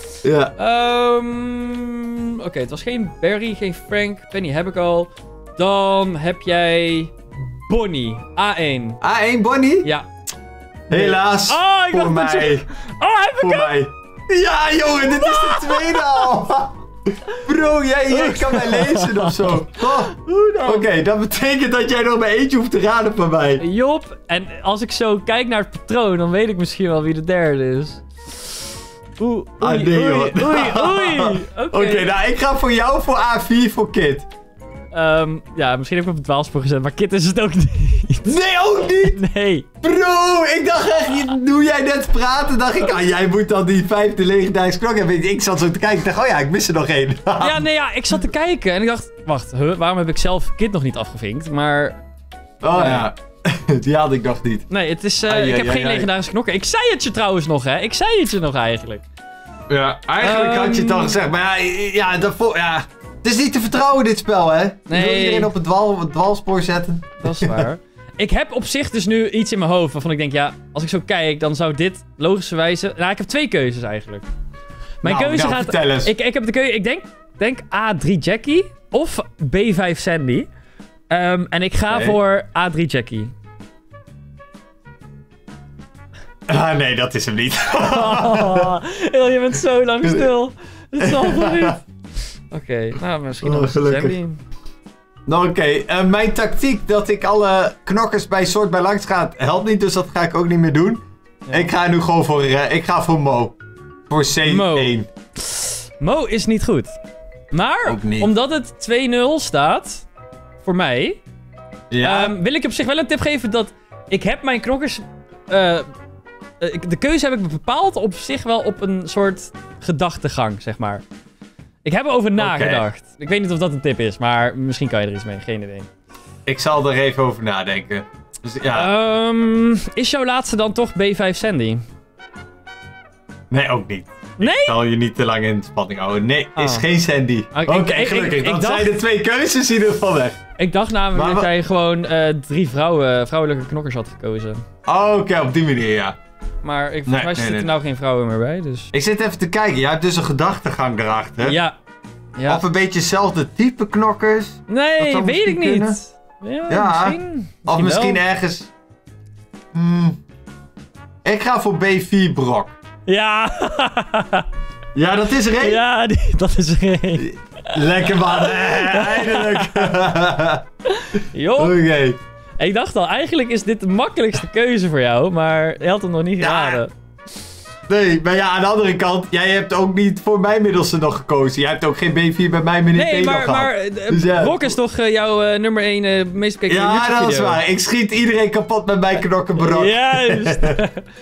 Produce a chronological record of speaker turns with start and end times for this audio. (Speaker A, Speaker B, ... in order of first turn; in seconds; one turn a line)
Speaker A: 0.2-0.5
Speaker B: 0.6-9.0
Speaker A: 9.0-9.9
Speaker B: 9.8-10.1
Speaker B: 10.9-13.8
Speaker A: 10.9-12.7
Speaker A: 13.4-16.7
Speaker B: 15.0-16.3
Speaker A: 17.3-23.6
Speaker B: 18.1-20.9
Speaker B: 23.6-28.0
Speaker B: 29.2-32.1
Speaker A: 29.6-34.3
Speaker B: 34.9-38.4
Speaker A: 38.2-39.2
Speaker B: 39.0-39.7
Speaker A: 39.8-47.6
Speaker B: 47.4-52.0
Speaker A: 52.6-54.7
Speaker B: 52.7-53.1
Speaker B: 54.7-59.1
Speaker A: 55.3-56.1
Speaker A: 59.7-67.7
Speaker B: 60.2-61.2
Speaker B: 64.9-65.5
Speaker B: 67.2-74.2
Speaker B: 75.0-80.5
Speaker A: 75.0-76.1
Speaker B: 81.1-83.3
Speaker A: 81.9-82.2
Speaker A: 86.5-88.8
Speaker B: 87.7-91.8
Speaker A: 90.0-90.3
Speaker A: 91.0-91.8
Speaker B: 92.5-94.4
Speaker A: 93.4-94.2
Speaker A: 95.3-103.6
Speaker B: 101.5-101.7
Speaker A: 104.1-105.1
Speaker B: 104.4-107.0
Speaker B: 107.5-110.1
Speaker A: 107.8-108.3
Speaker B: 110.6-111.2
Speaker A: 111.9-112.3
Speaker B: 112.0-115.9
Speaker B: 116.6-121.0
Speaker B: 121.8-125.9
Speaker A: 122.4-122.8
Speaker A: 126.5-128.9
Speaker B: 128.7-131.8
Speaker A: 133.5-140.4
Speaker B: 134.4-134.8
Speaker B: 136.6-136.9
Speaker B: 137.5-139.0
Speaker B: 140.6-144.6
Speaker A: 141.1-141.5
Speaker A: 144.9-146.2
Speaker B: 146.6-148.9
Speaker A: 147.1-147.7
Speaker A: 148.9-151.6
Speaker B: 151.4-151.8
Speaker B: 152.4-152.6
Speaker A: 152.5-156.0
Speaker B: 154.7-158.2
Speaker A: 156.7-158.7
Speaker A: 159.7-160.2
Speaker A: 161.2-162.8
Speaker B: 163.1-164.5
Speaker A: 164.9-165.8
Speaker B: 165.6-169.9
Speaker A: 167.2-170.6
Speaker B: 170.9-171.8
Speaker A: 171.6-172.2
Speaker B: 172.6-176.9
Speaker A: 176.4-176.8
Speaker A: 177.9-184.8
Speaker B: 182.9-187.6
Speaker A: 186.7-190.8
Speaker B: 189.6-191.1